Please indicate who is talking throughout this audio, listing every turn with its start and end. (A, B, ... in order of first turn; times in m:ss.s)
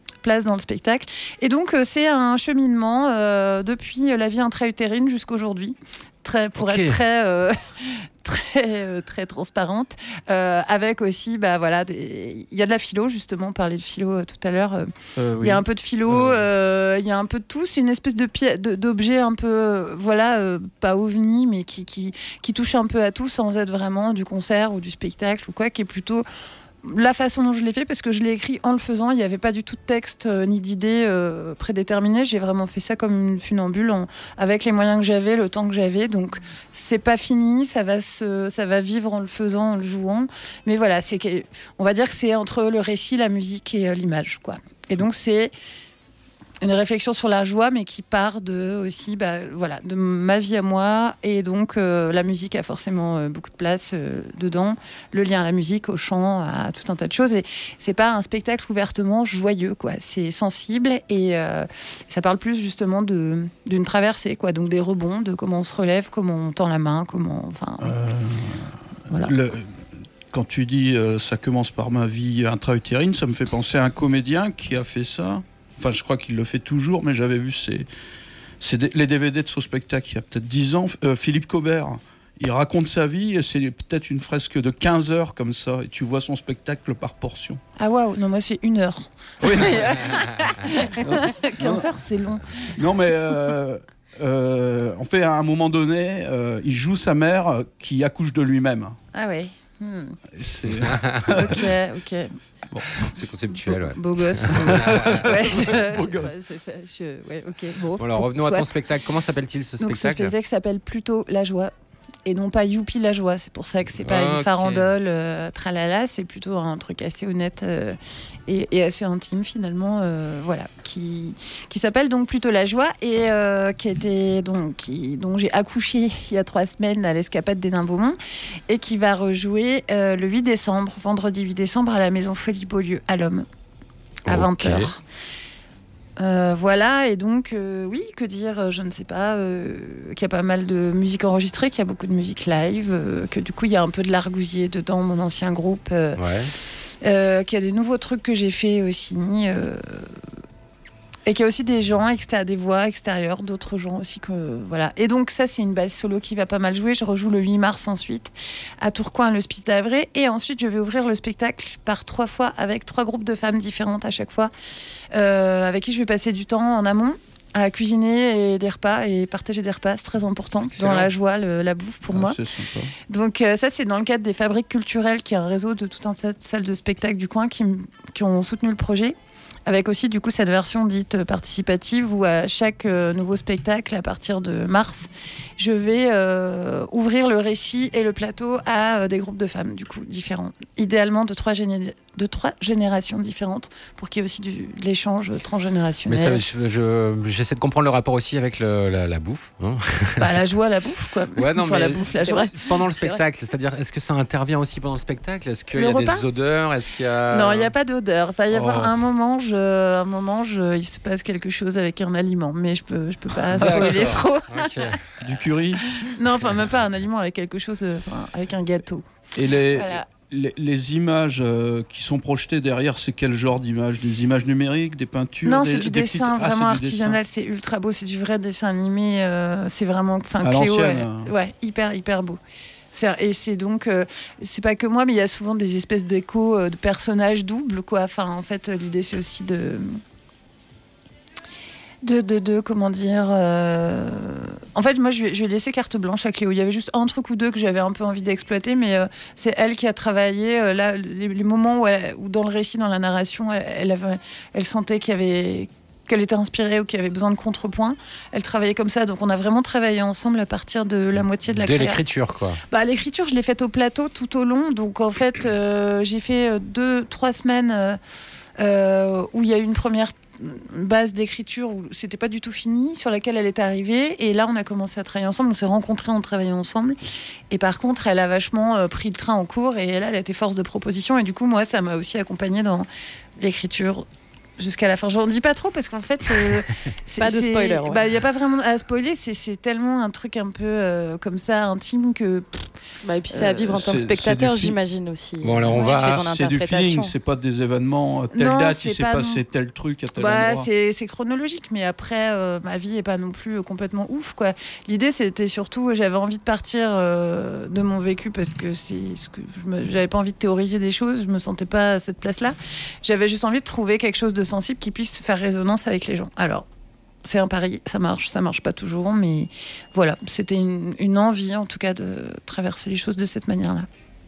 0:00.2-0:26.2 A
0:06.6-0:07.0 B
0:15.2-0:15.6 C
0:26.8-0:45.5 A
0:46.6-1:08.0 A
1:07.8-1:17.9 C
1:18.6-1:27.6 C
1:27.8-1:32.5 A
1:29.4-1:30.1 C
1:31.0-1:31.9 C
1:32.8-1:39.0 C
1:39.1-1:40.2 A
1:40.3-1:41.7 C
1:40.6-1:41.3 B
1:41.3-1:42.3 A
1:42.7-1:43.1 C
1:43.0-1:45.2 B
1:43.7-1:48.7 A
1:44.5-1:46.3 C
1:48.0-1:50.3 B
1:49.8-1:51.7 A
1:52.2-2:08.2 A
1:54.0-1:54.9 B
2:08.7-2:13.5 A
2:14.3-2:14.9 B
2:14.3-2:15.0 A
2:16.2-2:26.2 A
2:26.2-2:26.5 B
2:27.0-2:30.2 A
2:31.3-2:44.5 A
2:45.1-2:52.4 A
2:50.8-2:51.1 C
2:52.1-2:52.9 C
2:53.1-2:59.2 A
2:59.7-3:16.4 A
3:16.1-3:20.4 B
3:20.2-3:23.2 A
3:21.4-3:27.7 B
3:22.2-3:22.5 D
3:25.7-3:26.2 A
3:27.3-3:35.0 A
3:28.6-3:28.9 B
3:33.5-3:35.5 B
3:33.6-3:34.2 C
3:35.2-3:35.8 C
3:36.0-3:39.1 A
3:39.4-3:47.2 C
3:39.7-3:40.0 A
3:45.4-3:52.4 A
3:50.4-3:51.3 C
3:52.9-4:00.0 A
4:02.0-4:22.0 A
4:21.5-4:22.6 B
4:22.7-4:28.0 A
4:28.6-4:37.0 A
4:37.5-4:42.9 A
4:43.4-4:44.1 A
4:44.6-4:52.7 A
4:47.2-4:48.0 D
4:53.0-4:57.1 D
4:53.3-4:53.7 A
4:53.7-4:54.8 C
4:55.4-4:56.3 B
4:56.1-5:00.7 C
4:58.3-4:59.4 A
5:00.2-5:16.7 A
5:17.2-5:23.9 A